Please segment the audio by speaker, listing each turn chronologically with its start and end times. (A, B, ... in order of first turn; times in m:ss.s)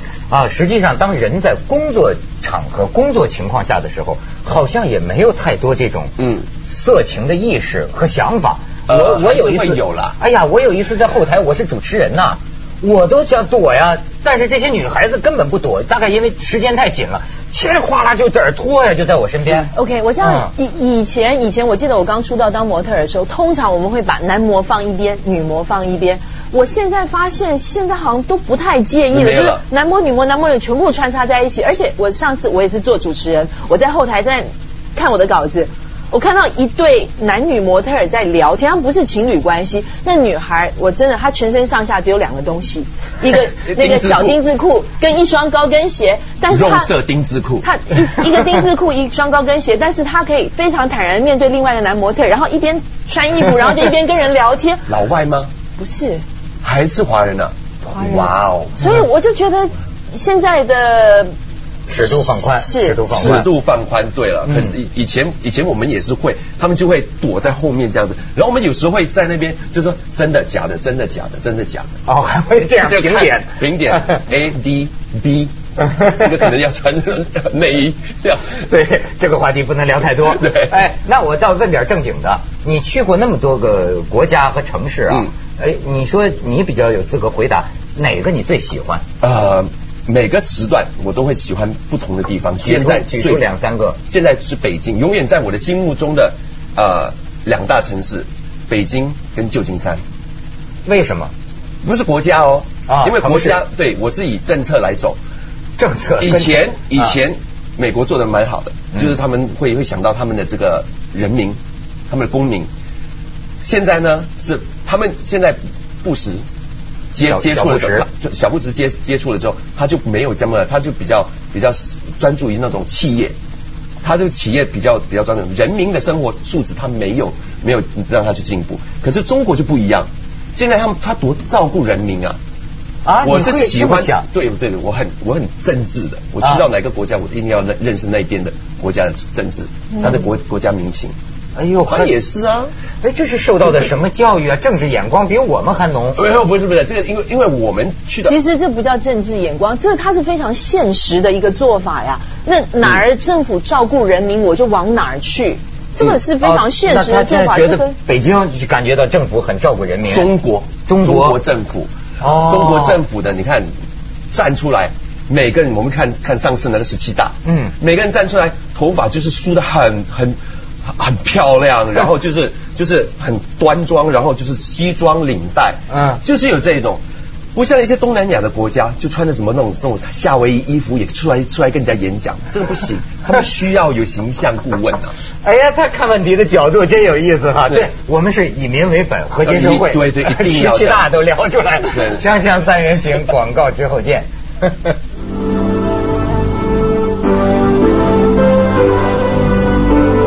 0:00.3-0:20.5 A
0:06.2-0:06.4 B
0:08.9-0:10.2 B
0:19.7-0:46.9 C
0:29.1-0:29.6 B
0:43.6-0:44.4 B
0:46.5-0:47.7 B
0:47.6-0:54.8 C
0:54.9-0:55.5 B
0:55.8-0:56.2 C
0:56.6-0:58.8 B
0:57.8-1:01.3 C
1:01.9-1:03.5 A
1:02.3-1:03.3 C
1:03.1-1:12.0 B
1:04.5-1:04.7 A
1:12.0-1:14.2 A
1:12.8-1:15.5 B
1:15.8-1:16.3 A
1:16.0-1:18.6 B
1:18.5-1:29.0 A
1:20.2-1:20.8 B
1:29.2-1:33.4 B
1:32.6-1:34.0 A
1:34.1-1:40.0 B
1:40.8-1:41.3 A
1:41.8-1:45.2 B
1:42.9-1:43.6 A
1:45.8-1:47.1 A
1:46.2-1:51.6 B
1:52.1-1:52.7 B
1:53.6-1:56.4 B
1:57.1-2:03.3 B
1:57.2-1:58.0 A
2:04.0-2:12.4 B
2:13.0-2:14.2 A
2:13.2-2:21.1 B
2:21.6-2:22.1 A
2:21.8-2:22.7 B
2:23.0-2:26.2 A
2:26.2-2:28.4 B
2:28.2-2:37.9 C
2:36.4-2:40.3 A
2:40.1-2:43.7 B
2:40.9-2:41.4 A
2:42.2-2:43.0 A
2:44.3-2:57.0 B
2:47.4-2:47.7 A
2:55.9-2:56.2 A
2:57.5-3:05.1 B
3:05.4-3:15.0 A
3:09.4-3:11.1 B
3:11.9-3:12.2 B